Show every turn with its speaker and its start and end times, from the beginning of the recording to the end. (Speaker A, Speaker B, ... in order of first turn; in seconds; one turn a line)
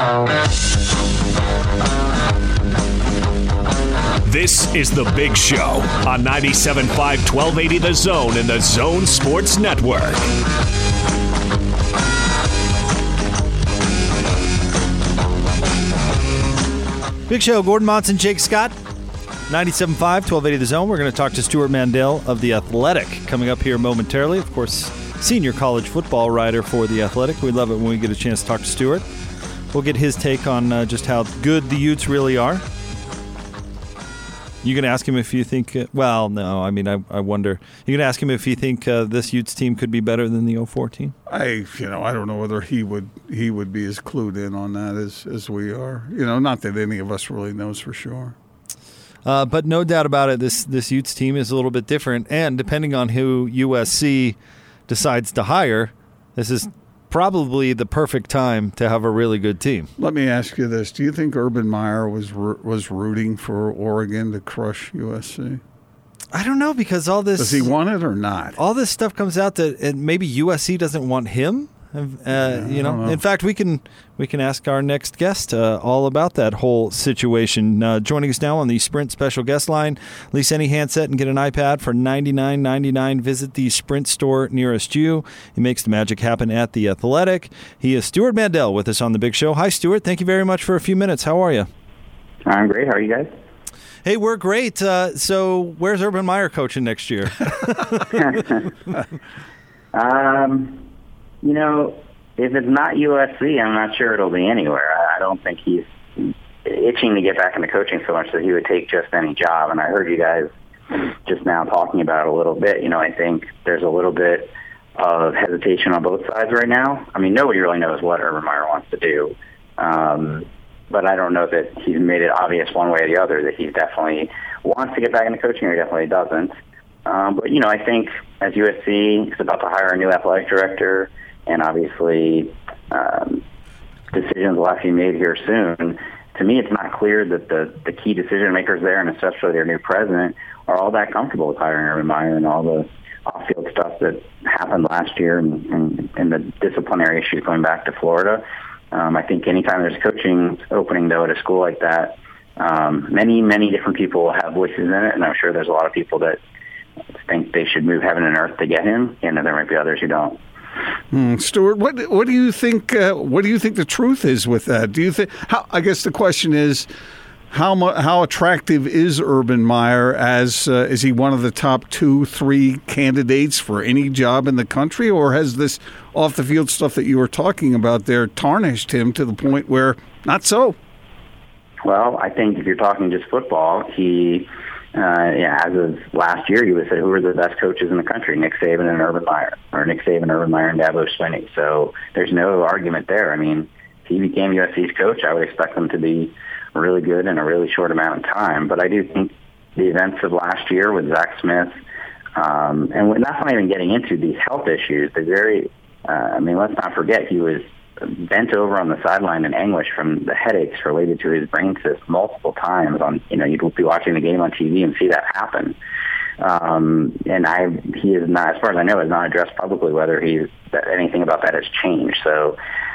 Speaker A: 4.2-10.2
Speaker B: 17.3-18.8
Speaker B: 19.5-29.0
Speaker B: 29.7-32.6
Speaker B: 34.6-41.1
Speaker C: 41.3-48.3
Speaker B: 49.2-54.4
Speaker B: 54.9-59.9
Speaker C: 60.0-65.6
Speaker B: 66.3-67.7
Speaker C: 67.4-68.6
Speaker B: 68.6-91.7
Speaker C: 72.3-73.2
Speaker D: 92.5-93.3
Speaker B: 94.0-98.1
Speaker D: 98.1-98.6
Speaker D: 99.9-100.8
Speaker D: 101.4-126.5
Speaker D: 127.0-133.4
Speaker D: 134.1-156.4
Speaker D: 157.3-160.4
Speaker C: 161.1-166.9
Speaker C: 167.5-180.8
Speaker D: 181.8-201.8
Speaker D: 202.3-215.8
Speaker D: 216.4-222.6